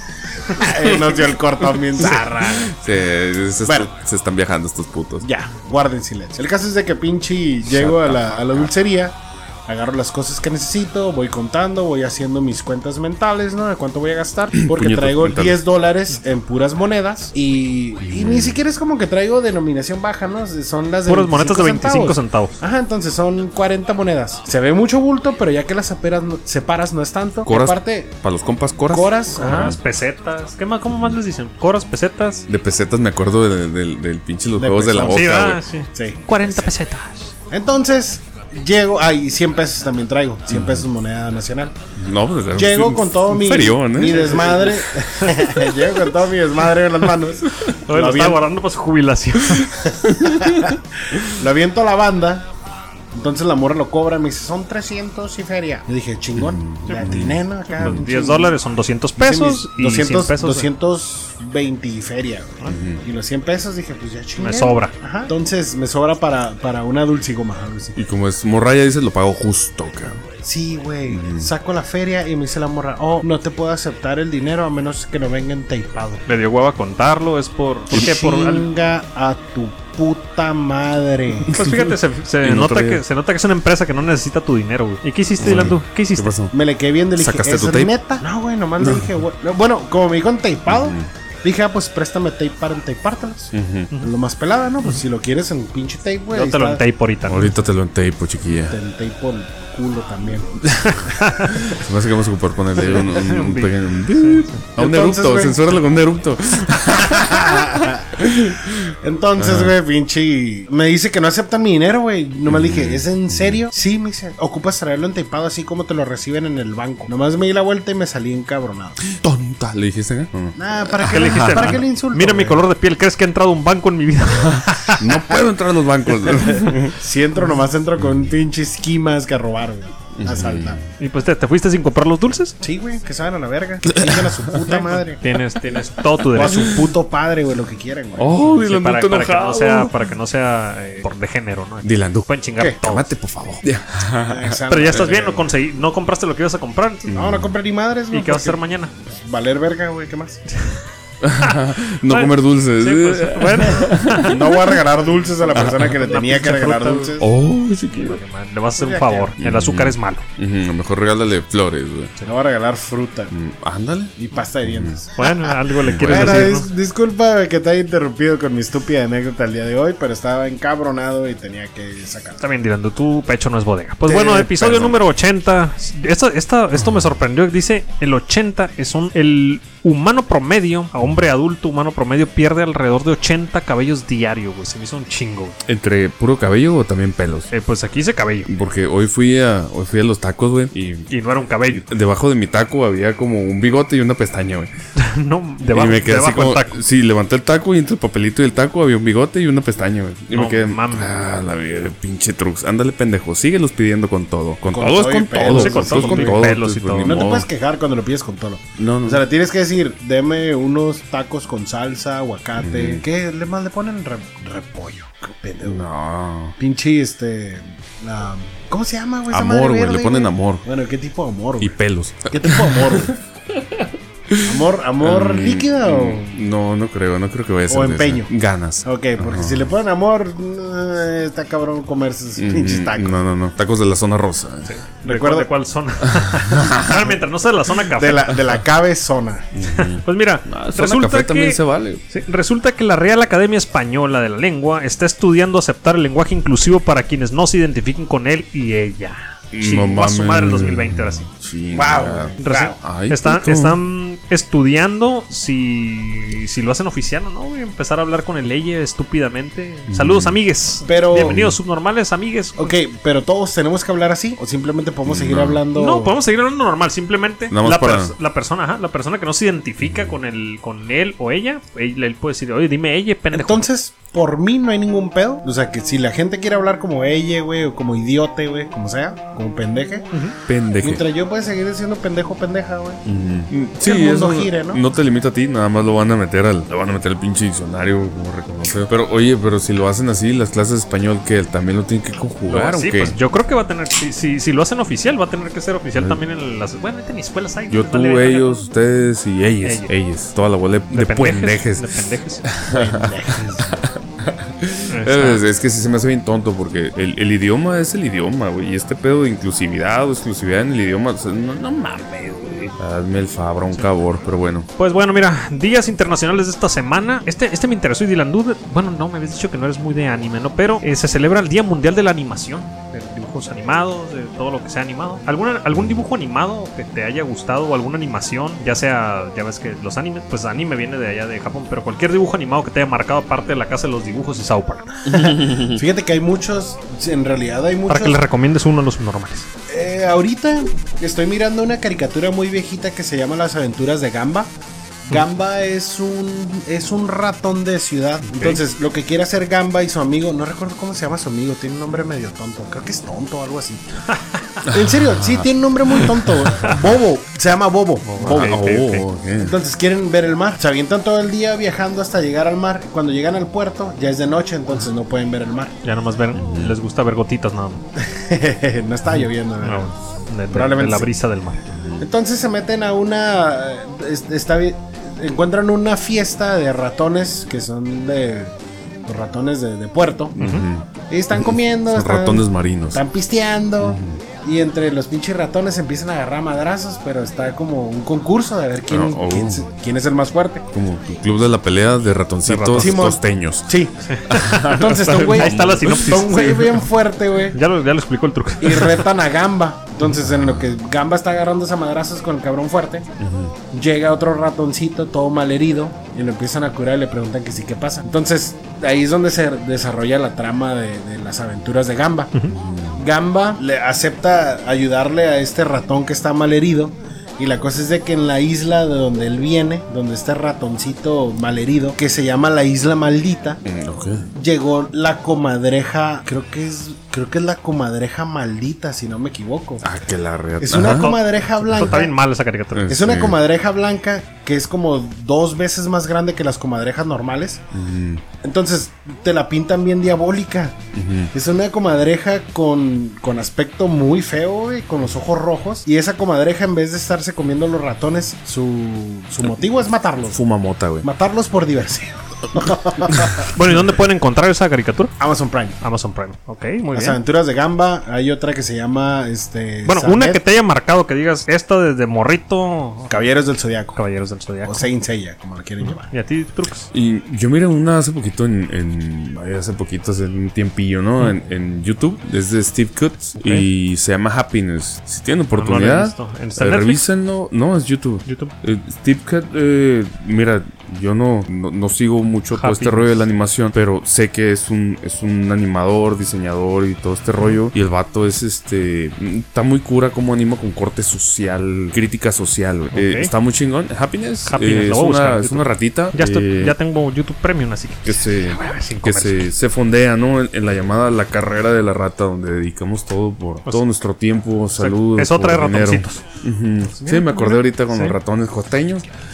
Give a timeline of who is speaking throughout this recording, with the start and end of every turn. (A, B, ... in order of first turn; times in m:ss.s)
0:00.5-0:02.8 A
0:02.0-0:05.3 B
0:05.2-0:28.2 A
0:07.7-0:08.7 B
0:14.5-0:15.6 B
0:18.0-0:18.6 B
0:21.0-0:22.5 C
0:27.4-0:29.8 B
0:28.9-0:29.8 A
0:29.4-0:32.5 C
0:30.9-0:31.2 B
0:32.5-0:35.6 B
0:34.6-0:35.4 A
0:35.1-0:37.3 C
0:35.9-0:36.7 A
0:37.5-0:41.8 A
0:40.5-0:40.9 B
0:42.0-0:45.9 B
0:42.6-0:48.4 A
0:47.9-0:49.8 C
0:49.9-0:52.5 A
0:50.2-0:51.2 B
0:53.1-0:58.6 A
0:56.4-0:58.0 B
0:57.8-1:00.7 C
0:59.2-1:08.0 A
1:02.7-1:03.0 B
1:04.4-1:05.0 C
1:08.0-1:10.2 B
1:10.3-1:16.3 A
1:11.1-1:11.5 B
1:16.3-1:18.7 C
1:17.9-1:21.6 A
1:21.5-1:23.0 B
1:21.5-1:26.3 C
1:25.4-1:26.5 B
1:26.5-1:36.8 A
1:27.2-1:27.9 B
1:28.8-1:29.2 B
1:30.7-1:31.1 B
1:33.5-1:33.9 B
1:36.3-1:37.5 C
1:37.3-1:38.8 B
1:38.7-1:41.8 A
1:40.8-1:41.6 C
1:41.7-1:49.7 B
1:43.0-1:44.6 C
1:44.8-1:45.6 A
1:47.0-1:59.0 A
1:52.5-1:53.6 B
1:59.1-2:01.8 B
2:00.6-2:02.7 A
2:01.1-2:05.0 C
2:04.9-2:05.4 A
2:05.0-2:07.0 B
2:06.3-2:10.8 A
2:08.0-2:08.3 B
2:10.2-2:10.8 B
2:11.0-2:12.6 C
2:12.6-2:15.2 A
2:13.9-2:14.8 B
2:15.2-2:16.8 C
2:16.1-2:16.8 B
2:16.3-2:18.6 A
2:18.2-2:19.9 B
2:18.6-2:23.1 C
2:21.8-2:22.3 B
2:22.8-2:25.0 B
2:24.2-2:25.5 A
2:24.7-2:27.1 C
2:27.1-2:27.5 B
2:27.1-2:30.4 A
2:28.1-2:28.9 C
2:30.5-2:30.8 C
2:31.2-2:34.6 B
2:31.4-2:34.8 C
2:34.1-2:37.3 A
2:35.4-2:37.2 C
2:35.6-2:36.0 B
2:37.2-2:38.2 B
2:37.9-2:40.2 C
2:38.8-2:39.3 A
2:39.4-2:42.1 B
2:42.2-2:43.3 A
2:43.3-2:44.1 B
2:44.2-2:52.4 A
2:44.6-2:45.0 B
2:45.2-2:46.7 C
2:45.8-2:46.5 B
2:52.4-3:05.6 C
2:54.1-2:55.0 A
3:05.6-3:07.5 B
3:07.5-3:08.5 C
3:08.5-3:11.1 B
3:11.1-3:11.9 C
3:11.7-3:14.7 B
3:15.0-3:16.8 C
3:15.7-3:27.5 B
3:20.3-3:21.1 C
3:24.7-3:35.8 A
3:25.4-3:27.3 C
3:28.8-3:29.2 B
3:32.6-3:33.0 B
3:35.6-3:36.6 B
3:36.6-3:41.7 A
3:39.3-3:40.6 B
3:41.6-3:49.7 B
3:42.3-3:43.2 A
3:44.4-3:46.4 A
3:47.7-3:48.3 A
3:48.8-3:53.2 A
3:52.4-3:54.7 B
3:54.7-3:58.4 C
3:55.0-3:55.5 A
3:56.2-3:57.1 B
3:58.0-3:59.5 A
3:59.6-4:02.0 B
3:59.7-4:11.3 C
4:09.5-4:13.8 B
4:11.7-4:12.8 A
4:12.4-4:22.8 C
4:19.9-4:20.4 B
4:20.9-4:21.4 A
4:21.2-4:21.6 B
4:22.6-4:26.2 A
4:25.1-4:25.6 B
4:25.7-4:33.6 C
4:27.5-4:28.1 B
4:33.3-4:40.1 A
4:40.5-4:41.0 B
4:40.8-4:43.0 A
4:43.0-4:53.2 B
4:43.6-4:44.8 A
4:52.5-4:58.6 C
4:57.7-5:01.9 B
4:59.6-4:59.9 C
5:00.9-5:02.4 C
5:02.4-5:14.7 B
5:02.7-5:03.8 A
5:04.9-5:05.4 C
5:14.8-5:35.2 C
5:35.1-5:38.2 A
5:35.1-5:35.8 B
5:37.9-5:39.5 C
5:39.7-5:44.5 A
5:45.1-5:53.8 A
5:48.2-5:48.6 C
5:54.6-5:58.6 A
5:54.6-5:57.0 B
5:58.0-5:59.0 C
5:58.2-5:59.6 B
5:59.4-6:05.8 A
6:05.8-6:07.8 C
6:06.3-6:06.8 B
6:08.0-6:09.9 A
6:09.6-6:11.7 C
6:10.5-6:11.1 A
6:11.7-6:12.0 B
6:12.0-6:18.5 A
6:19.1-6:20.4 A
6:20.4-6:23.0 B
6:20.4-6:20.7 C
6:21.1-6:30.7 A
6:23.8-6:24.2 B
6:28.9-6:29.7 B
6:30.7-6:33.7 B
6:32.5-6:33.0 C
6:32.8-6:34.0 A
6:34.1-6:36.5 C
6:34.3-6:36.8 B
6:34.5-6:37.6 A
6:37.5-6:39.1 C
6:38.6-6:43.0 A
6:40.2-6:40.7 B
6:43.2-6:43.5 B
6:43.7-6:52.3 A
6:52.5-6:53.0 B
6:53.0-7:03.6 A
7:03.6-7:04.3 B
7:04.3-7:09.8 A
7:09.8-7:11.2 B
7:10.6-7:12.1 A
7:10.8-7:12.9 C
7:12.7-7:13.4 B
7:12.9-7:17.6 A
7:17.7-7:18.2 B
7:18.4-7:20.8 A
7:20.9-7:21.3 B
7:21.3-7:30.4 A
7:30.3-7:31.1 B
7:31.0-7:33.5 A
7:33.1-7:33.4 B
7:33.5-7:35.1 C
7:35.2-7:35.8 A
7:35.8-7:37.2 C
7:36.9-7:40.4 A
7:39.9-7:43.2 C
7:43.1-7:44.0 A
7:44.0-7:44.9 C
7:44.6-7:46.1 A
7:45.8-7:46.9 C
7:46.9-8:16.8 B
7:53.4-7:53.7 C
7:55.5-7:57.0 C
7:58.3-7:58.5 C
8:02.5-8:03.2 C
8:12.9-8:13.3 C
8:14.5-8:19.5 C
8:18.0-8:29.0 B
8:24.8-8:26.2 C
8:26.8-8:28.2 C